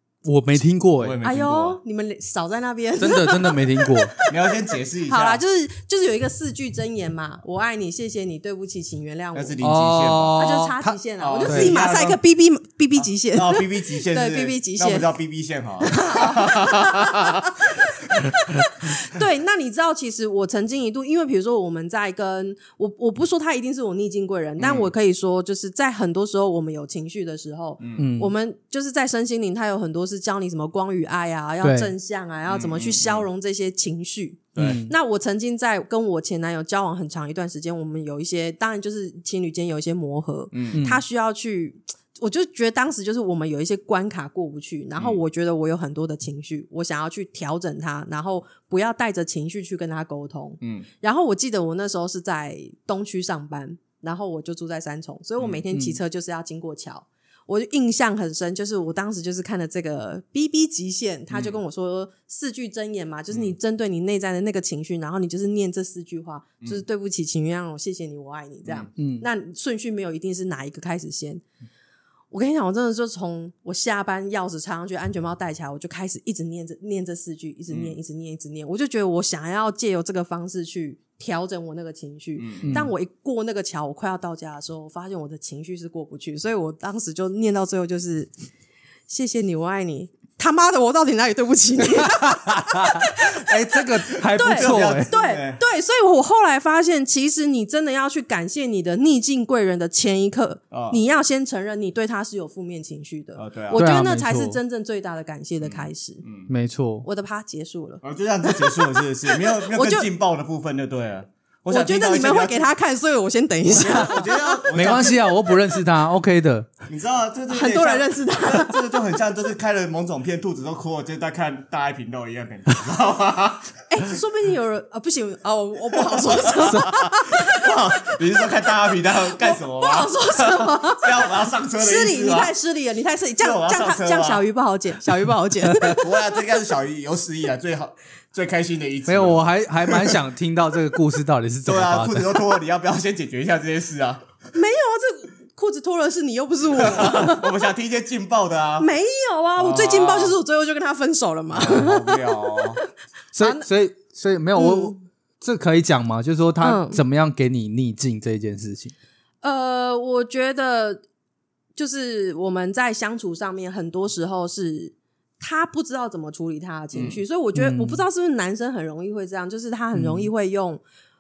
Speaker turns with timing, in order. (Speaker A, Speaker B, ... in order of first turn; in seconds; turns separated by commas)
Speaker A: 0.2-1.2, Speaker B: 1.0-1.8, Speaker C: 1.2-4.3, Speaker A: 3.0-4.1, Speaker B: 4.3-5.4, Speaker C: 5.1-9.6, Speaker B: 9.3-10.4, Speaker A: 9.6-11.7, Speaker C: 10.3-15.1, Speaker B: 11.2-12.2, Speaker B: 13.3-17.2, Speaker C: 15.8-71.4, Speaker B: 24.6-24.9, Speaker B: 27.8-28.1, Speaker A: 28.0-28.3, Speaker A: 31.6-31.9, Speaker B: 32.5-33.3, Speaker A: 34.6-34.9, Speaker B: 40.5-40.8, Speaker A: 40.7-41.0, Speaker B: 50.6-50.9, Speaker B: 55.4-55.6, Speaker A: 55.7-56.0, Speaker B: 61.3-61.6, Speaker B: 63.3-63.5, Speaker A: 69.0-69.2, Speaker C: 72.3-88.3, Speaker B: 77.7-78.0, Speaker B: 82.4-82.9, Speaker A: 82.6-82.9, Speaker C: 89.1-93.5, Speaker A: 92.0-95.1, Speaker C: 94.3-106.2, Speaker B: 94.4-95.6, Speaker B: 100.7-101.0, Speaker B: 103.3-103.8, Speaker A: 103.7-104.6, Speaker B: 105.6-106.5, Speaker A: 106.5-107.0, Speaker C: 107.0-110.1, Speaker B: 108.0-112.7, Speaker C: 111.7-115.1, Speaker B: 113.7-115.3, Speaker A: 113.7-116.7, Speaker B: 116.9-123.7, Speaker C: 117.5-118.8, Speaker C: 123.9-127.6, Speaker B: 126.1-132.5, Speaker C: 129.4-131.1, Speaker C: 131.8-136.0, Speaker B: 133.4-134.4, Speaker B: 135.8-140.2, Speaker A: 139.1-142.4, Speaker B: 141.7-144.2, Speaker C: 144.5-147.5, Speaker B: 146.7-148.9, Speaker C: 148.8-152.8, Speaker B: 149.6-150.4, Speaker B: 151.5-152.8, Speaker A: 153.3-158.9, Speaker C: 153.4-153.7, Speaker C: 154.5-155.0, Speaker C: 156.6-157.0, Speaker C: 159.4-161.0, Speaker C: 161.8-170.8, Speaker B: 166.9-167.2, Speaker A: 167.5-168.0, Speaker A: 169.9-170.3